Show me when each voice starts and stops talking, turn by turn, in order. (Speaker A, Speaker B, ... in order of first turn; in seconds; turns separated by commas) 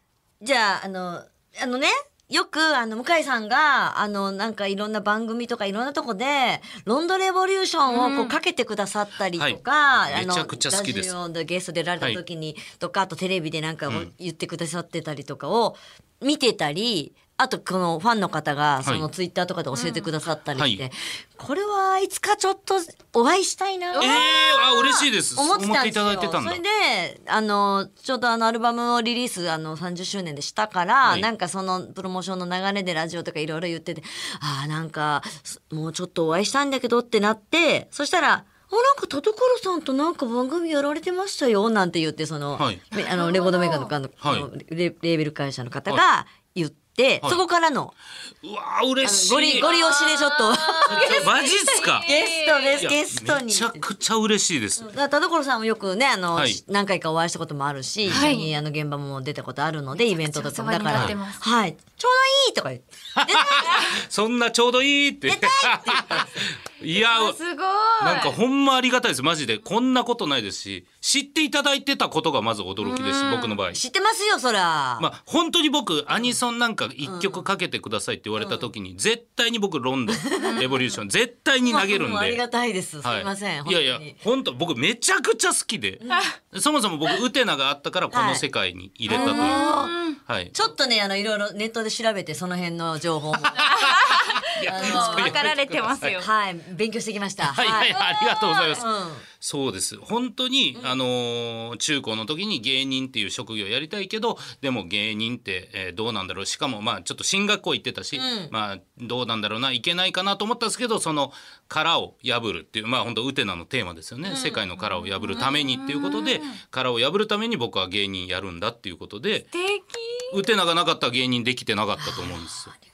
Speaker A: 0.4-47.9, Speaker B: 7.9-8.4, Speaker C: 9.4-11.1, Speaker B: 19.7-20.1, Speaker C: 20.5-20.8, Speaker B: 23.9-24.4, Speaker C: 24.0-26.6, Speaker B: 42.9-43.9, Speaker C: 44.2-44.5, Speaker C: 48.4-49.7, Speaker A: 49.0-51.3, Speaker B: 49.6-52.8, Speaker C: 50.9-52.1, Speaker A: 52.0-53.8, Speaker C: 52.8-54.9, Speaker A: 54.8-63.9, Speaker C: 56.3-56.6, Speaker B: 58.1-58.5, Speaker B: 60.0-61.4, Speaker C: 63.1-67.4, Speaker B: 63.6-64.0, Speaker A: 65.3-66.4, Speaker B: 66.9-68.4, Speaker C: 68.0-73.8, Speaker B: 72.8-73.6, Speaker A: 73.7-75.1, Speaker C: 75.0-82.4, Speaker A: 77.0-77.4, Speaker A: 80.1-80.6, Speaker B: 80.3-81.0, Speaker A: 81.7-84.1, Speaker C: 83.0-90.5, Speaker B: 86.1-86.3, Speaker A: 88.1-88.4, Speaker A: 89.1-90.0, Speaker B: 89.1-90.2, Speaker A: 90.5-93.7, Speaker C: 93.5-96.2, Speaker B: 93.5-96.3, Speaker A: 94.6-95.4, Speaker A: 96.1-98.0, Speaker C: 97.4-98.8, Speaker B: 97.9-98.8, Speaker A: 98.7-99.2, Speaker C: 99.4-119.5, Speaker A: 108.1-108.5, Speaker A: 114.2-114.6, Speaker B: 114.8-116.6, Speaker B: 119.5-120.4, Speaker C: 120.3-122.7, Speaker A: 122.0-122.8